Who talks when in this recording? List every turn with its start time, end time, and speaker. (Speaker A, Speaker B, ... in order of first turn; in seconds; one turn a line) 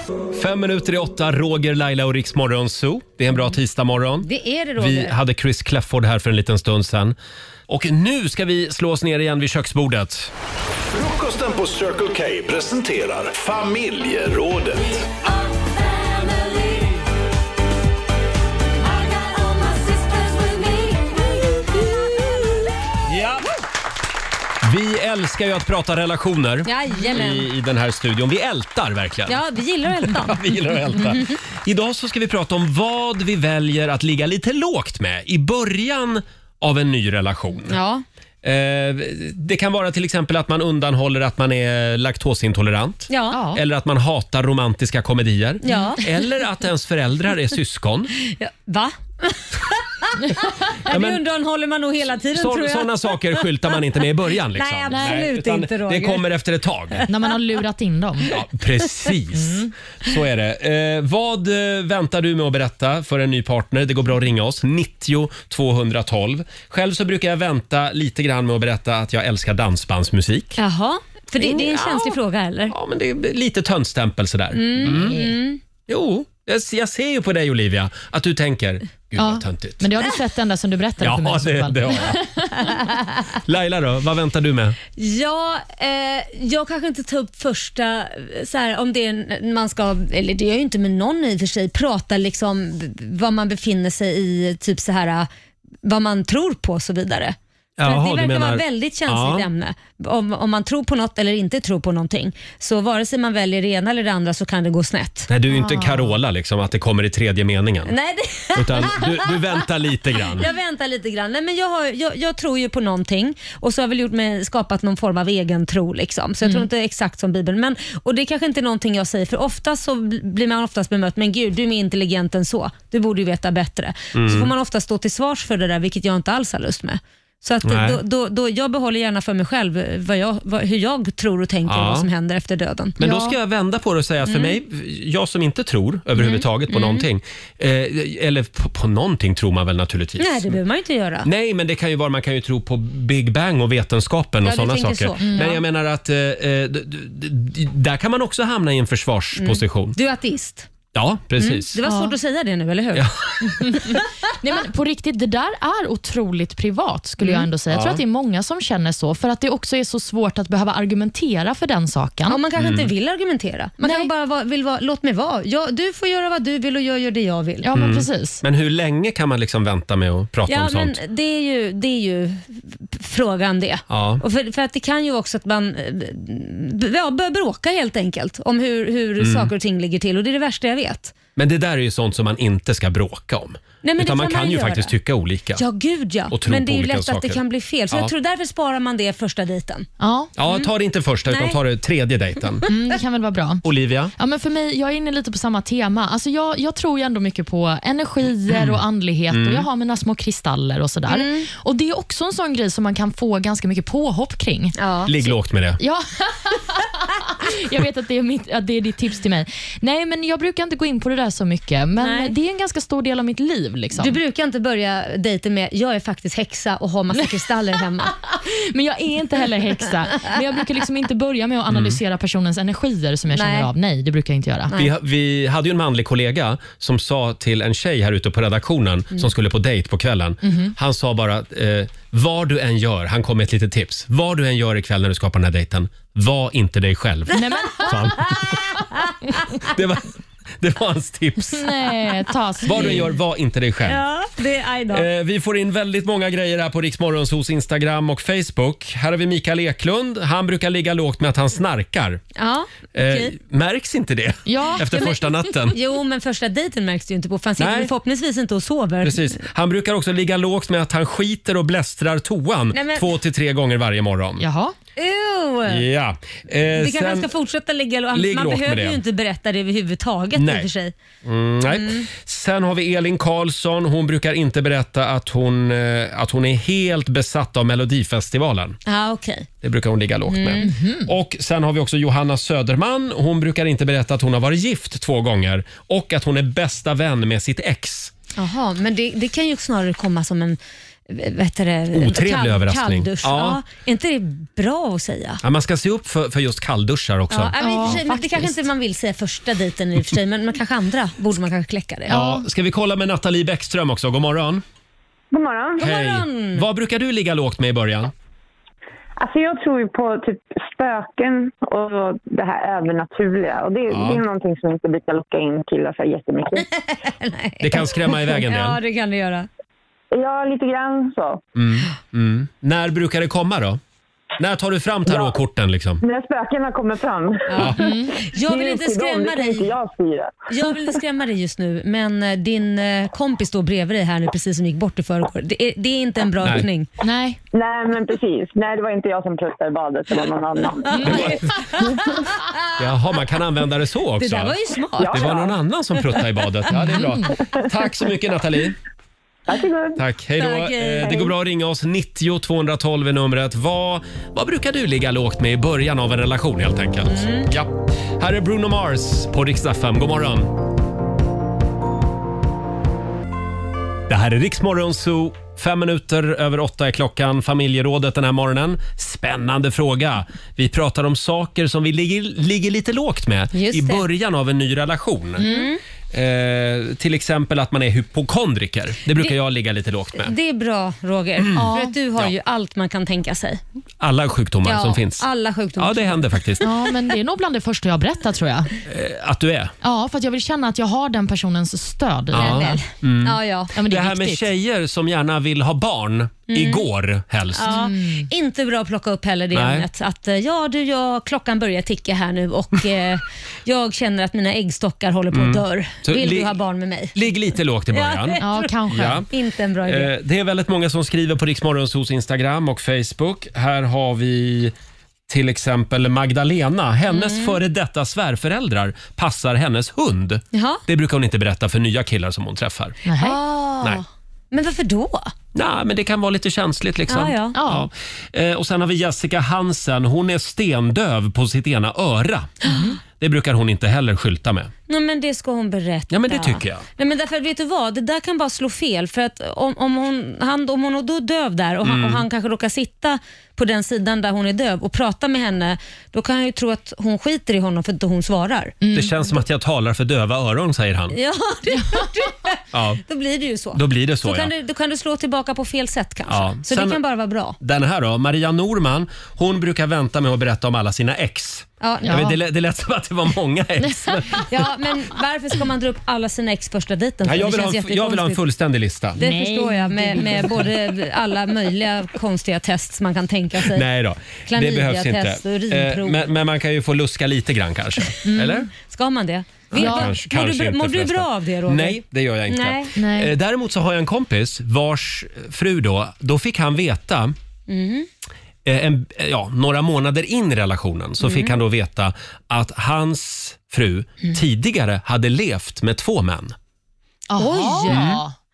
Speaker A: 0.3-7.2
Speaker B: 4.2-5.2
Speaker A: 7.7-10.3
Speaker C: 10.9-15.1
Speaker B: 15.3-17.0
Speaker B: 18.9-22.9
Speaker A: 23.1-23.5
Speaker A: 24.6-29.4
Speaker B: 26.6-27.5
Speaker B: 29.3-31.4
Speaker A: 30.0-37.8
Speaker B: 37.7-38.0
Speaker A: 38.4-48.1
Speaker B: 43.1-43.5
Speaker D: 43.3-43.6
Speaker B: 45.6-46.1
Speaker B: 48.2-53.8
Speaker A: 50.9-51.2
Speaker A: 52.3-57.0
Speaker B: 54.5-56.2
Speaker D: 54.9-55.2
Speaker D: 57.1-58.3
Speaker A: 58.3-70.6
Speaker D: 59.3-59.7
Speaker B: 70.6-72.8
Speaker A: 71.4-72.2
Speaker A: 72.7-75.2
Speaker B: 74.5-75.6
Speaker D: 74.8-75.3
Speaker A: 75.9-79.9
Speaker D: 79.2-82.8
Speaker A: 81.0-82.3
Speaker B: 82.6-83.2
Speaker A: 83.3-84.8
Speaker B: 85.0-95.3
Speaker B: 95.8-105.3
Speaker A: 97.8-99.5
Speaker A: 105.3-107.9
Speaker D: 105.5-106.0
Speaker B: 107.9-109.7
Speaker A: 108.5-110.5
Speaker B: 110.2-133.0
Speaker A: 124.1-124.5
Speaker A: 127.6-128.0
Speaker A: 131.7-132.1
Speaker A: 133.0-140.6
Speaker D: 133.0-133.4
Speaker B: 134.2-134.6
Speaker B: 136.2-137.1
Speaker B: 140.2-141.3
Speaker A: 141.2-150.0
Speaker B: 144.4-145.6
Speaker D: 145.2-145.5
Speaker B: 149.4-150.7
Speaker A: 150.9-151.8
Speaker B: 151.4-153.2
Speaker D: 151.8-152.1
Speaker A: 152.9-153.8
Speaker D: 153.5-162.4
Speaker B: 157.2-157.5
Speaker A: 157.7-158.0
Speaker B: 162.3-167.7
Speaker A: 162.6-162.9
Speaker D: 163.8-164.1
Speaker D: 167.6-168.4
Speaker A: 167.8-171.0
Speaker B: 170.5-181.2
Speaker A: 173.9-174.2
Speaker A: 179.2-179.5
Speaker A: 181.4-185.6
Speaker B: 183.8-184.9
Speaker B: 185.6-189.9
Speaker A: 186.3-188.1
Speaker D: 190.0-190.3
Speaker A: 190.4-192.7
Speaker B: 191.3-191.6
Speaker D: 192.7-193.6
Speaker A: 193.6-194.1
Speaker D: 194.2-204.8
Speaker A: 198.5-199.7
Speaker B: 201.1-201.5
Speaker B: 204.8-205.3
Speaker A: 205.1-205.8
Speaker D: 205.8-214.2
Speaker B: 212.0-212.3
Speaker B: 214.0-218.2
Speaker D: 218.3-224.7
Speaker A: 221.7-222.0
Speaker B: 223.3-223.7
Speaker A: 224.7-238.7
Speaker D: 230.4-230.8
Speaker D: 237.3-238.3
Speaker B: 237.9-238.5
Speaker A: 239.6-241.7
Speaker D: 241.5-243.0
Speaker A: 242.7-244.0
Speaker B: 242.7-243.1
Speaker B: 243.8-245.1
Speaker A: 244.9-252.2
Speaker B: 252.4-253.3
Speaker A: 252.9-255.8
Speaker D: 254.5-254.9
Speaker B: 254.9-259.4
Speaker A: 257.6-257.9
Speaker A: 259.0-264.4
Speaker B: 262.7-263.1
Speaker D: 264.4-264.7
Speaker B: 265.0-265.9
Speaker A: 265.7-267.3
Speaker B: 266.8-270.9
Speaker A: 268.1-269.0
Speaker A: 270.4-270.7
Speaker A: 271.2-278.8
Speaker B: 271.7-272.1
Speaker B: 278.9-279.5
Speaker A: 279.6-288.1
Speaker B: 280.3-280.7
Speaker D: 280.6-281.1
Speaker B: 288.4-295.4
Speaker A: 291.9-293.6
Speaker A: 295.4-298.2
Speaker B: 297.3-302.2
Speaker D: 297.6-298.5
Speaker D: 302.1-302.5
Speaker A: 302.1-304.6
Speaker E: 305.3-305.8
Speaker B: 305.8-306.7
Speaker A: 305.8-308.1
Speaker E: 309.2-316.7
Speaker A: 313.9-314.2
Speaker B: 317.1-319.5
Speaker A: 317.6-318.8
Speaker E: 320.1-321.4
Speaker A: 321.6-323.8
Speaker A: 324.4-326.0
Speaker E: 325.1-325.4
Speaker E: 326.0-327.7
Speaker B: 327.5-329.7
Speaker D: 327.7-328.2
Speaker E: 328.3-331.0
Speaker B: 330.5-336.9
Speaker A: 336.4-336.7
Speaker D: 337.0-337.4
Speaker E: 337.5-342.0
Speaker D: 340.9-341.3
Speaker B: 340.9-342.6
Speaker A: 341.0-341.7
Speaker A: 342.8-344.6
Speaker B: 344.2-345.4
Speaker E: 345.0-345.6
Speaker A: 345.1-348.8
Speaker D: 346.7-347.3
Speaker E: 349.5-350.0
Speaker A: 350.0-360.5
Speaker B: 350.4-351.3
Speaker B: 357.1-357.5
Speaker A: 364.1-375.5
Speaker B: 373.5-374.1
Speaker D: 375.4-375.7
Speaker B: 375.4-375.8
Speaker A: 376.1-380.4
Speaker B: 380.2-383.6
Speaker D: 381.6-381.9
Speaker A: 384.0-385.3
Speaker B: 384.6-386.6
Speaker A: 385.8-386.6
Speaker D: 386.6-388.7
Speaker A: 388.9-389.7
Speaker D: 389.8-392.7
Speaker A: 392.3-397.9
Speaker B: 392.4-393.7
Speaker D: 393.8-394.5
Speaker B: 396.5-396.9
Speaker B: 397.6-407.2
Speaker D: 397.7-398.3
Speaker A: 399.5-399.9
Speaker A: 405.3-406.5
Speaker A: 407.1-409.3
Speaker B: 407.9-408.7
Speaker D: 408.4-409.2
Speaker B: 409.3-410.1
Speaker A: 409.8-414.7
Speaker A: 415.3-423.0
Speaker B: 417.1-417.6
Speaker B: 420.5-420.8
Speaker D: 423.1-423.4
Speaker B: 423.2-425.3
Speaker A: 425.6-432.5
Speaker B: 427.1-427.6
Speaker D: 427.6-427.9
Speaker D: 432.6-433.0
Speaker A: 433.2-434.7
Speaker B: 434.9-448.8
Speaker A: 436.1-436.9
Speaker A: 441.8-442.2
Speaker D: 448.8-449.3
Speaker A: 448.9-451.2
Speaker B: 451.1-457.6
Speaker D: 451.8-452.1
Speaker A: 452.7-453.0
Speaker A: 453.7-454.5
Speaker A: 456.3-457.0
Speaker A: 457.6-464.5
Speaker B: 461.8-462.2
Speaker D: 462.0-462.4
Speaker D: 463.8-464.4
Speaker B: 464.4-468.4
Speaker A: 467.2-469.2
Speaker B: 469.2-473.9
Speaker D: 469.2-470.7
Speaker A: 473.6-478.7
Speaker B: 474.5-476.3
Speaker D: 478.2-478.7
Speaker B: 478.8-482.9
Speaker A: 479.7-487.4
Speaker D: 479.8-480.1
Speaker D: 482.9-483.3
Speaker B: 487.7-488.1
Speaker A: 488.6-496.6
Speaker B: 491.2-491.6
Speaker D: 497.3-498.3
Speaker B: 497.4-498.2
Speaker A: 497.9-498.2